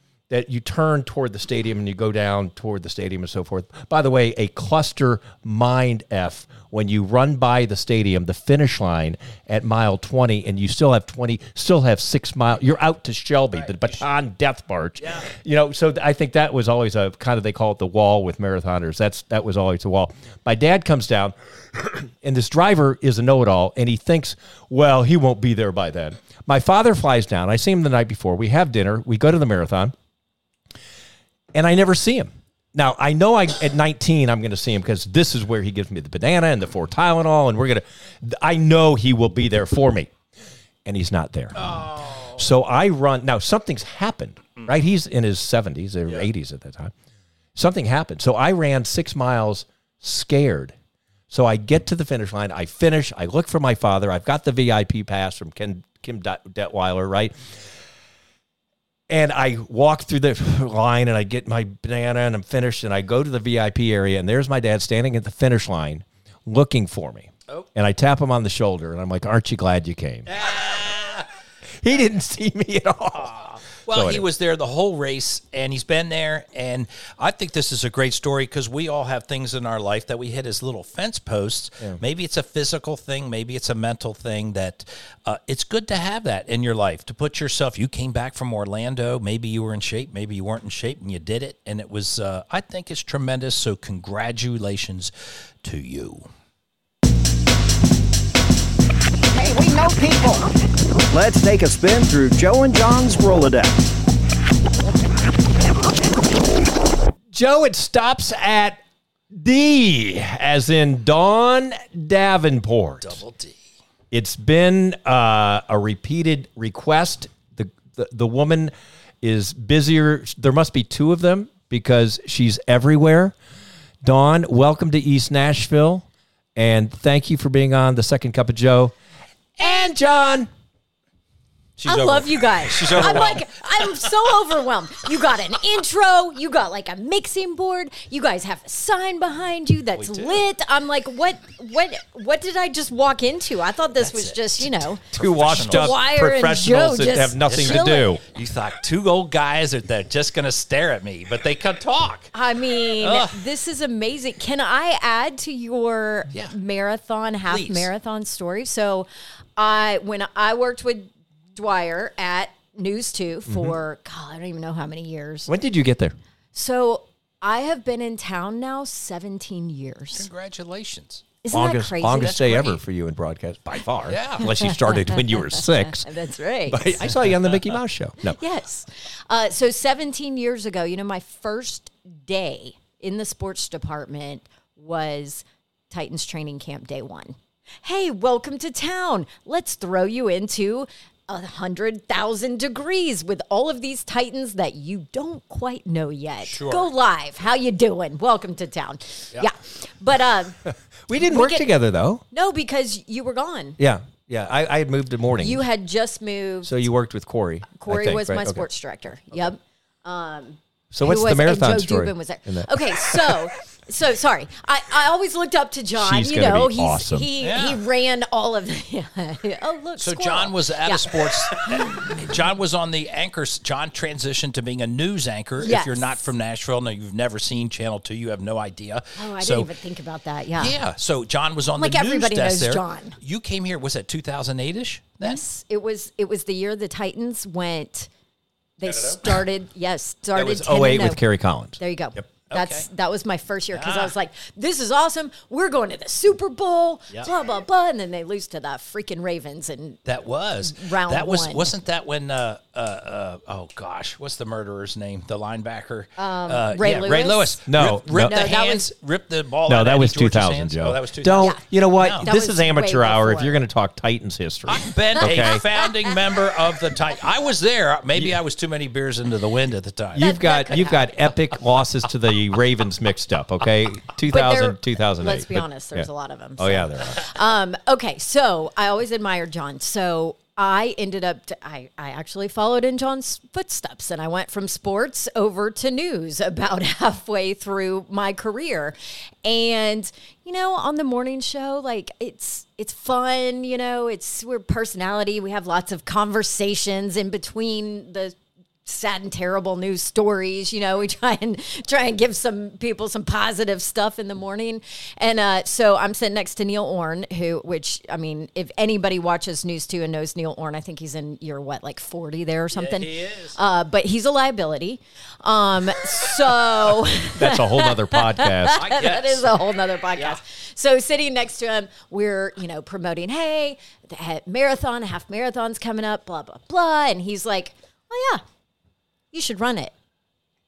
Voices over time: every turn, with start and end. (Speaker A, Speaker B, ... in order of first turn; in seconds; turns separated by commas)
Speaker A: 0.3-29.9, Speaker B: 13.6-13.9, Speaker B: 15.0-15.3, Speaker A: 31.5-40.1, Speaker A: 40.8-46.9, Speaker B: 41.5-42.4, Speaker A: 47.5-50.7, Speaker A: 51.3-57.3, Speaker A: 59.1-70.4, Speaker B: 70.3-71.3, Speaker A: 71.6-74.2, Speaker B: 73.8-95.1, Speaker B: 95.6-96.3, Speaker C: 99.3-100.5, Speaker C: 101.1-103.8, Speaker A: 107.3-108.8, Speaker A: 109.3-113.2, Speaker B: 113.0-113.6, Speaker A: 114.1-123.3, Speaker A: 124.0-128.9, Speaker A: 129.6-130.5, Speaker B: 129.6-129.9, Speaker B: 131.8-134.1, Speaker D: 131.8-145.0, Speaker B: 139.9-140.4, Speaker B: 144.0-145.9, Speaker A: 145.1-148.2, Speaker D: 145.6-148.1, Speaker B: 147.4-152.3, Speaker D: 152.3-165.5, Speaker B: 153.0-153.4, Speaker B: 157.5-157.9, Speaker A: 163.5-163.7, Speaker A: 165.5-166.1, Speaker D: 166.5-170.3, Speaker B: 170.2-171.3, Speaker D: 171.4-172.6, Speaker A: 171.5-176.1, Speaker B: 172.1-172.8, Speaker B: 174.0-174.5, Speaker D: 174.4-177.1, Speaker A: 176.7-178.4, Speaker D: 178.2-200.6, Speaker B: 196.4-196.9, Speaker A: 200.7-202.2, Speaker D: 201.2-201.7, Speaker D: 202.3-203.8, Speaker A: 203.8-205.6, Speaker D: 205.4-206.8, Speaker A: 206.6-208.7, Speaker D: 207.7-222.2, Speaker A: 210.9-213.4, Speaker A: 215.9-217.3, Speaker B: 217.4-217.8, Speaker B: 220.0-229.7, Speaker D: 225.6-226.2, Speaker D: 229.2-230.7, Speaker B: 230.6-235.4, Speaker D: 231.8-233.2, Speaker D: 235.2-238.1, Speaker D: 238.8-241.2, Speaker A: 240.3-241.8, Speaker D: 241.8-250.0, Speaker B: 242.5-242.8, Speaker B: 243.7-244.1, Speaker B: 250.1-262.2, Speaker D: 250.6-251.7, Speaker D: 256.2-257.6, Speaker A: 257.7-258.4, Speaker D: 258.2-258.9, Speaker A: 259.6-265.6, Speaker D: 261.4-261.6, Speaker D: 262.2-263.6, Speaker B: 264.7-270.3, Speaker D: 265.2-266.1, Speaker A: 270.1-277.2, Speaker D: 270.2-271.2, Speaker D: 274.3-328.4, Speaker B: 312.7-313.6, Speaker A: 317.3-318.8, Speaker B: 318.7-319.5, Speaker D: 329.3-329.9